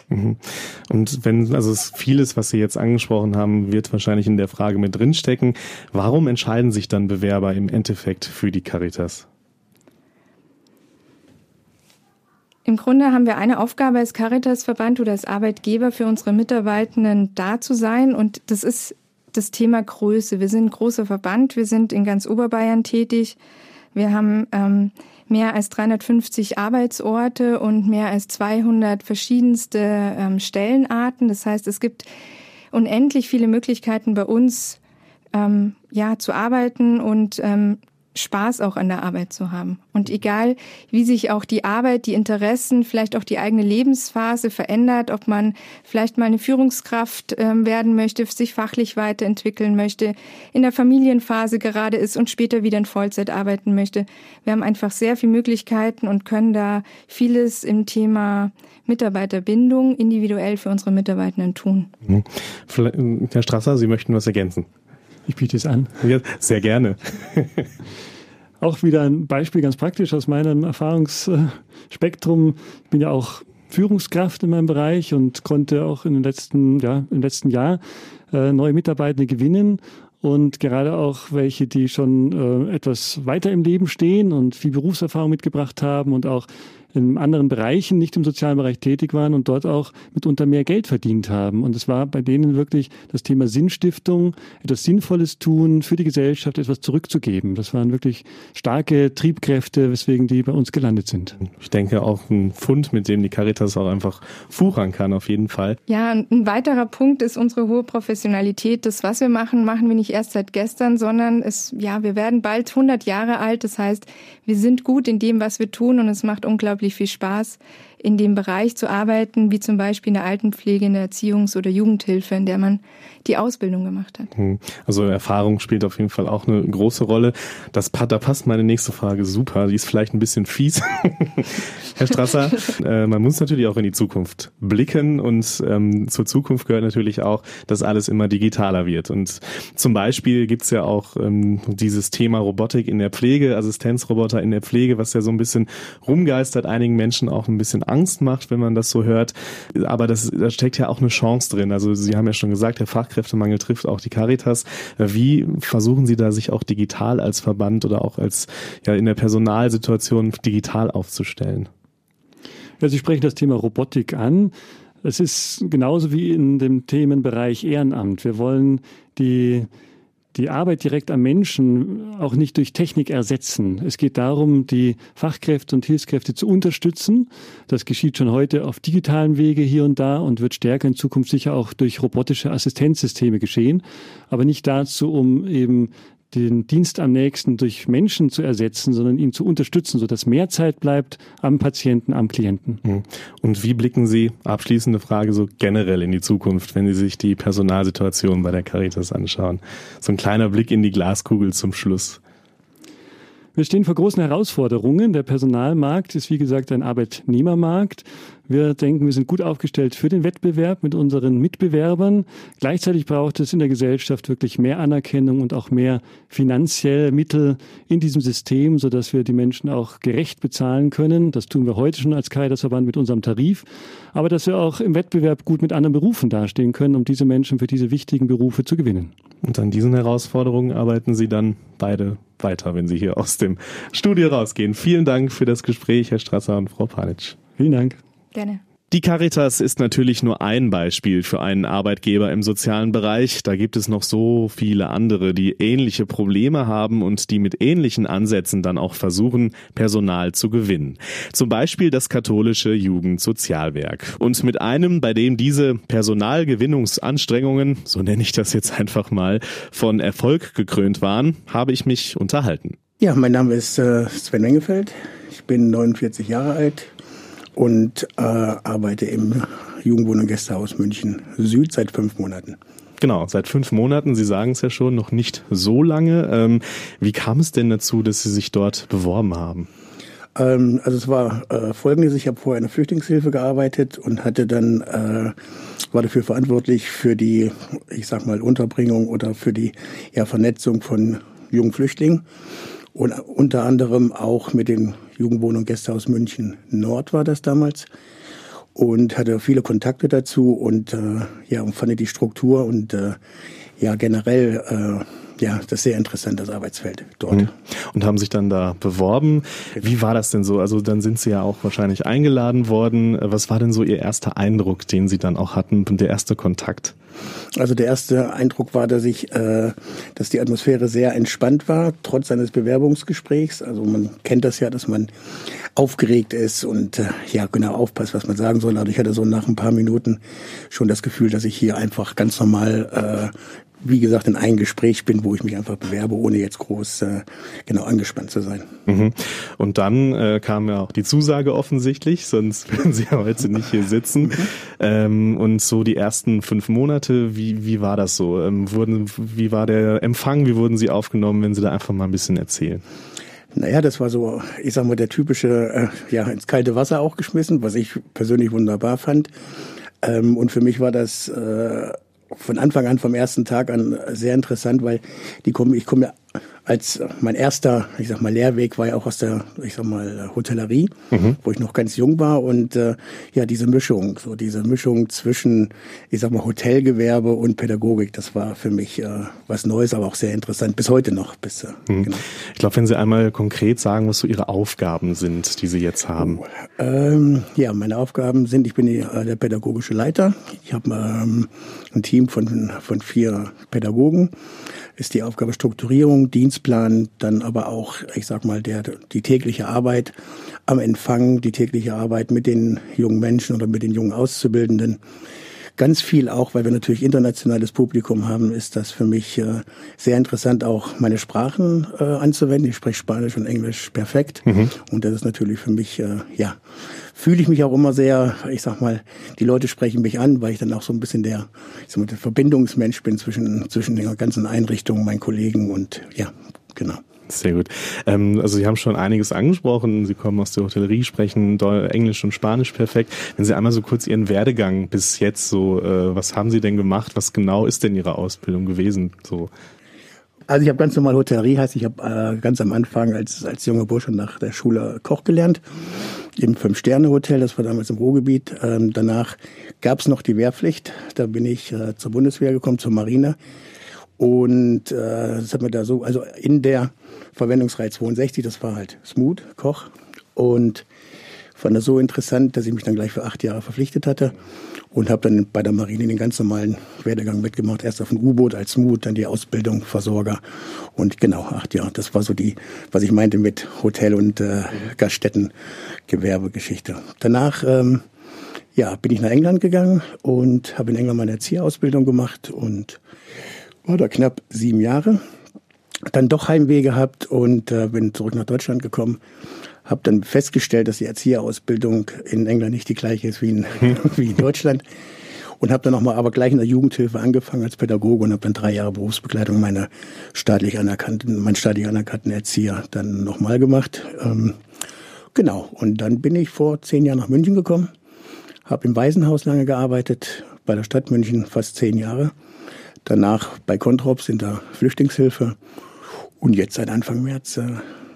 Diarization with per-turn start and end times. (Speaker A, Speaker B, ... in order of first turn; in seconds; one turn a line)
Speaker A: 0.1-9.3
Speaker B: 12.7-23.4
Speaker B: 23.9-32.1
Speaker B: 32.7-34.8
Speaker B: 35.3-61.9
Speaker A: 62.0-64.7
Speaker C: 65.3-65.9
Speaker A: 66.0-67.7
Speaker C: 68.6-101.4
Speaker A: 101.5-105.8
Speaker B: 105.9-124.3
Speaker A: 124.4-161.7
Speaker C: 162.8-169.7
Speaker C: 170.3-192.8
Speaker A: 192.8-202.2
Speaker C: 203.6-229.1
Speaker A: 229.4-237.4
Speaker C: 237.6-238.0
Speaker B: 238.3-238.6
Speaker A: 238.9-262.8
Speaker D: 263.0-266.9
Speaker D: 267.6-272.6
Speaker A: 273.0-279.7
Speaker D: 280.4-285.4
Speaker D: 285.9-292.2
Speaker D: 292.9-297.9
Speaker D: 298.7-303.2
Speaker D: 303.8-307.5
Speaker A: 307.3-316.9
Speaker D: 317.6-325.1
Speaker D: 325.7-338.8
Speaker A: 338.9-352.8
Speaker D: 353.5-359.3
Speaker D: 360.0-382.2
Speaker A: 381.9-386.4
Speaker D: 386.8-394.3
Speaker D: 394.9-405.0
Speaker D: 405.8-416.6
Speaker D: 417.1-427.0
Speaker A: 427.3-439.5
Speaker D: 440.5-445.6
Speaker D: 446.4-453.4
Speaker D: 454.2-460.9
Speaker D: 461.6-464.4
Speaker D: 464.9-475.5
Speaker D: 476.1-478.0
Speaker D: 478.7-483.0
Speaker D: 483.9-485.2
Speaker D: 486.1-489.2
Speaker D: 489.9-494.8
Speaker D: 495.6-504.6
Speaker D: 505.4-507.9
Speaker D: 508.6-512.3
Speaker D: 513.1-515.6
Speaker D: 516.4-517.9